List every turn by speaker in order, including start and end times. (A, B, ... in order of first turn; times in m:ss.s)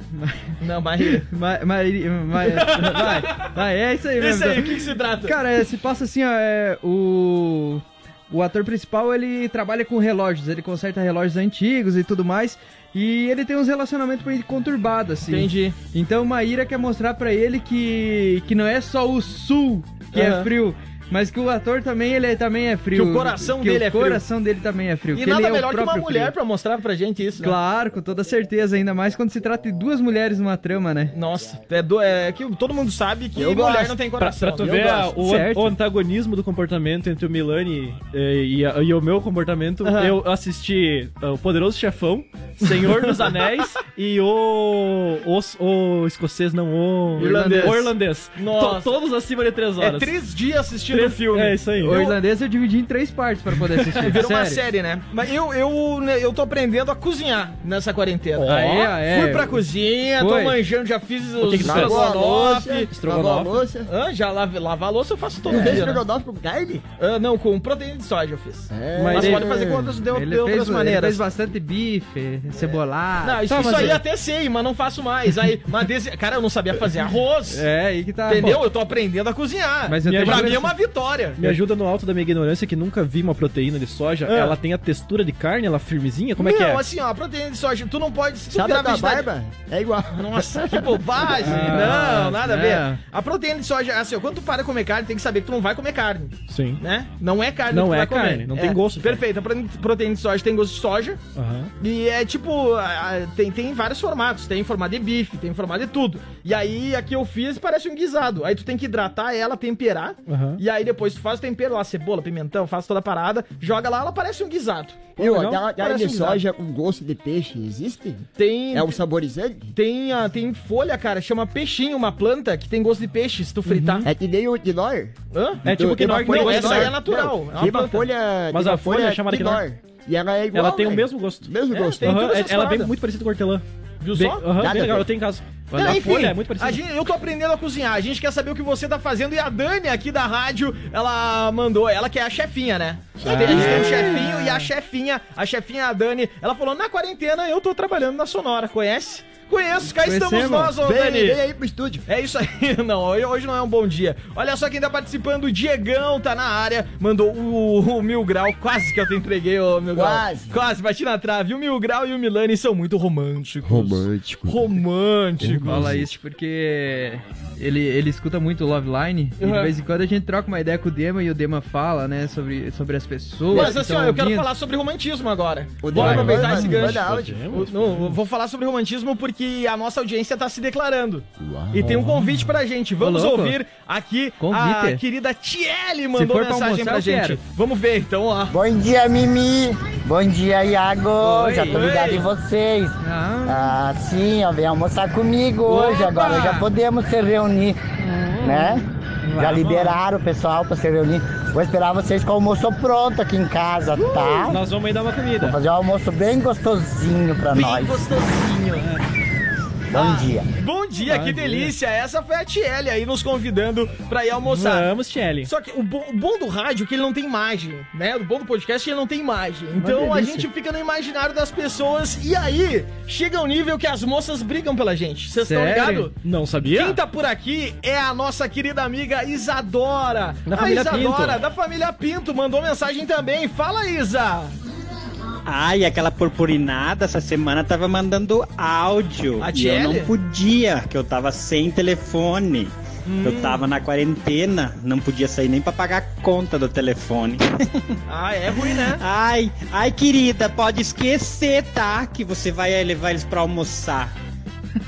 0:00.1-0:26.3 A
0:00.6-0:01.2 B
0:02.4-0:03.5 B
0:04.2-0:05.4 B
0:15.3-0:15.8 B
0:20.1-0:20.5 B
0:22.9-0:24.2 B
0:25.1-0:27.6 B
0:27.4-0:31.1 A
0:31.1-0:35.1 B
0:33.3-0:34.0 C
0:34.2-0:50.1 D
0:35.1-0:35.8 A
0:39.8-0:40.2 B
0:42.6-0:43.5 B
0:47.2-0:47.9 A
0:47.2-0:49.0 B
0:49.8-0:51.6 B
0:50.9-0:52.1 D
0:51.8-0:54.6 A
0:53.8-0:54.1 D
0:54.0-1:02.9 B
0:58.4-0:58.9 D
0:58.5-0:59.6 A
1:00.2-1:00.6 A
1:01.4-1:02.1 D
1:01.6-1:03.9 C
1:02.9-1:03.6 D
1:03.9-1:06.0 B
1:05.4-1:06.8 C
1:05.5-1:05.8 A
1:07.0-1:11.2 B
1:08.7-1:10.0 C
1:08.9-1:09.7 D
1:10.1-1:14.0 A
1:13.2-1:17.6 B
1:17.5-1:18.6 A
1:18.3-1:21.6 B
1:19.9-1:20.7 A
1:20.0-1:20.7 D
1:21.4-1:26.8 D
1:24.2-1:24.6 B
1:26.4-1:29.3 B
1:28.5-1:31.4 C
1:30.1-1:41.2 B
1:31.4-1:32.3 D
1:31.4-1:33.0 A
1:36.5-1:36.8 D
1:37.7-1:39.2 D
1:41.3-1:41.7 D
1:41.8-1:55.1 B
1:50.3-1:50.6 D
1:55.2-1:59.7 C
1:55.2-1:55.6 D
1:55.7-1:56.4 B
1:58.4-1:59.0 B
1:59.7-2:04.1 B
2:03.7-2:04.0 A
2:04.0-2:12.2 C
2:05.3-2:05.6 B
2:05.6-2:07.0 D
2:06.2-2:08.0 B
2:08.5-2:09.6 D
2:10.5-2:11.5 D
2:11.7-2:12.9 B
2:12.0-2:16.8 D
2:14.0-2:14.4 B
2:14.6-2:15.1 C
2:15.7-2:16.0 A
2:15.7-2:31.4 B
2:23.2-2:24.1 C
2:23.3-2:24.6 A
2:23.4-2:24.0 D
2:30.0-2:30.7 A
2:30.8-2:32.0 C
2:32.1-2:45.9 B
2:39.9-2:40.6 C
2:43.6-2:44.8 C
2:45.4-2:46.1 C
2:45.6-2:54.5 A
2:49.4-2:49.7 B
2:53.5-3:08.5 B
2:55.8-2:57.6 C
2:55.9-2:56.2 A
2:55.9-2:58.2 D
3:01.4-3:02.0 C
3:01.8-3:02.3 D
3:03.0-3:03.6 A
3:04.4-3:05.0 A
3:06.1-3:07.4 A
3:08.5-3:17.8 E
3:11.2-3:11.8 A
3:11.7-3:12.3 B
3:13.0-3:13.7 A
3:15.6-3:16.7 A
3:18.0-3:18.7 A
3:18.4-3:24.6 E
3:19.2-3:20.0 D
3:24.0-3:25.6 D
3:25.4-3:28.0 E
3:27.5-3:28.9 B
3:29.9-3:30.5 E
3:29.9-3:34.9 B
3:31.0-3:31.7 D
3:34.4-3:35.5 D
3:35.4-3:46.2 B
3:39.8-3:40.4 A
3:39.8-3:40.4 D
3:45.4-3:46.1 A
3:46.2-3:47.0 D
3:46.7-3:54.5 B
3:50.4-3:51.4 D
3:55.4-4:07.9 F
3:59.4-4:00.1 B
4:03.0-4:03.6 B
4:08.1-4:09.0 B
4:08.8-4:14.1 F